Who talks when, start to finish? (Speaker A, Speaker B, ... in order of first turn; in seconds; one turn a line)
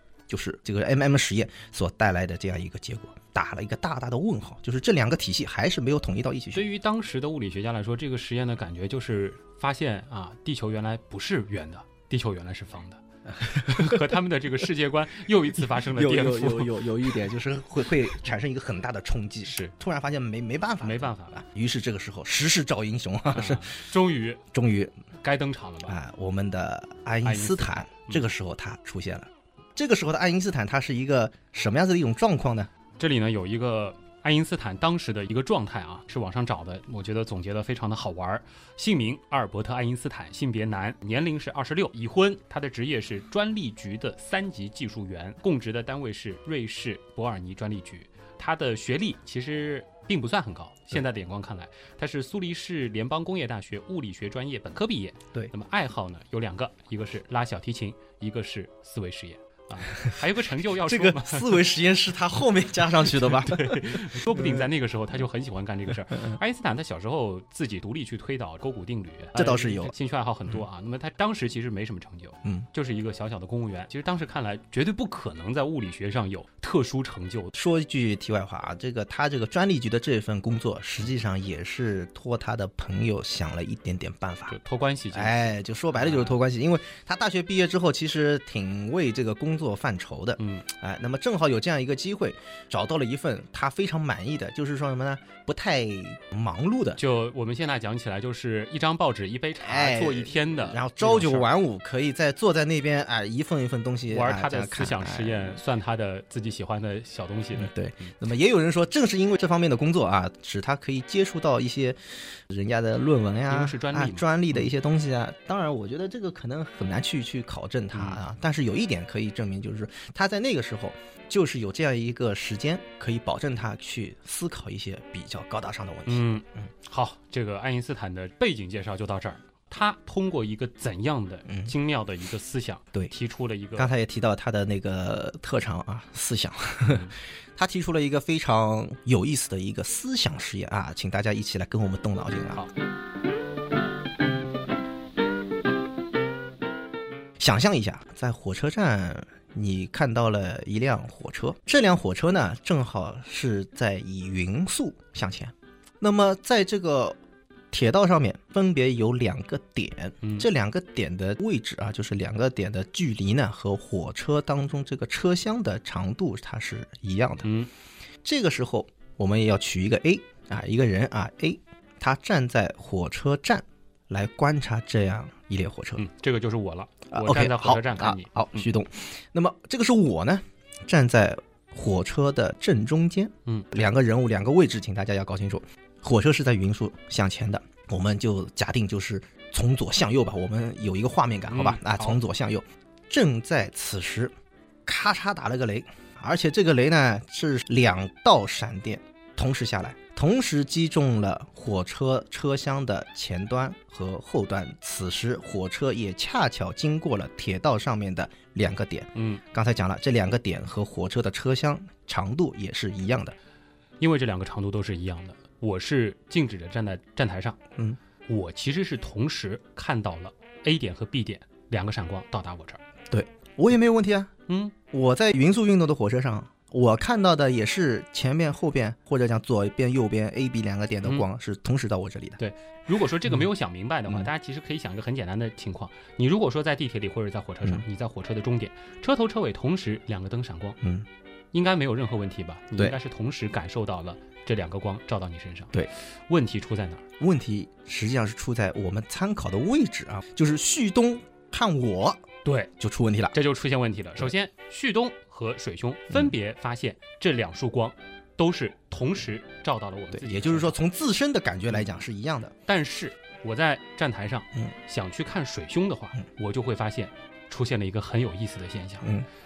Speaker A: 0.3-6.7
Speaker B: 6.5-16.8
Speaker A: 13.4-14.0
Speaker A: 15.8-23.7
Speaker B: 19.4-19.7
Speaker B: 20.8-21.4
Speaker B: 23.3-24.4
Speaker A: 24.5-24.9
Speaker B: 25.2-26.0
Speaker A: 25.9-32.7
Speaker B: 27.2-28.2
Speaker B: 33.0-61.6
Speaker A: 60.8-64.7
Speaker B: 63.0-77.5
Speaker A: 66.1-66.3
Speaker A: 69.3-69.9
Speaker A: 77.5-84.5
Speaker B: 84.5-85.4
Speaker A: 85.1-97.0
Speaker B: 85.9-86.4
Speaker B: 90.4-90.7
Speaker B: 97.0-101.5
Speaker A: 99.6-105.6
Speaker B: 104.1-108.1
Speaker A: 107.5-126.6
Speaker B: 113.5-114.7
Speaker B: 117.9-118.2
Speaker B: 126.0-133.9
Speaker A: 131.5-131.7
Speaker A: 133.8-142.6
Speaker A: 147.4-157.2
Speaker A: 157.7-167.5
Speaker B: 160.2-160.5
Speaker B: 167.4-167.7
Speaker A: 168.2-176.0
Speaker B: 176.0-178.7
Speaker A: 177.1-194.3
Speaker B: 191.5-192.2
Speaker A: 194.8-213.3
Speaker B: 209.1-209.4
Speaker B: 214.0-217.6
Speaker B: 218.3-222.8
Speaker A: 223.1-224.3
Speaker B: 224.5-224.7
Speaker A: 224.9-232.4
Speaker B: 232.4-240.8
Speaker A: 240.8-241.1
Speaker B: 241.5-245.7
Speaker B: 246.3-247.1
Speaker A: 247.2-252.2
Speaker B: 252.4-252.7
Speaker A: 252.8-253.3
Speaker B: 253.3-260.8
Speaker A: 260.1-262.5
Speaker B: 262.6-269.1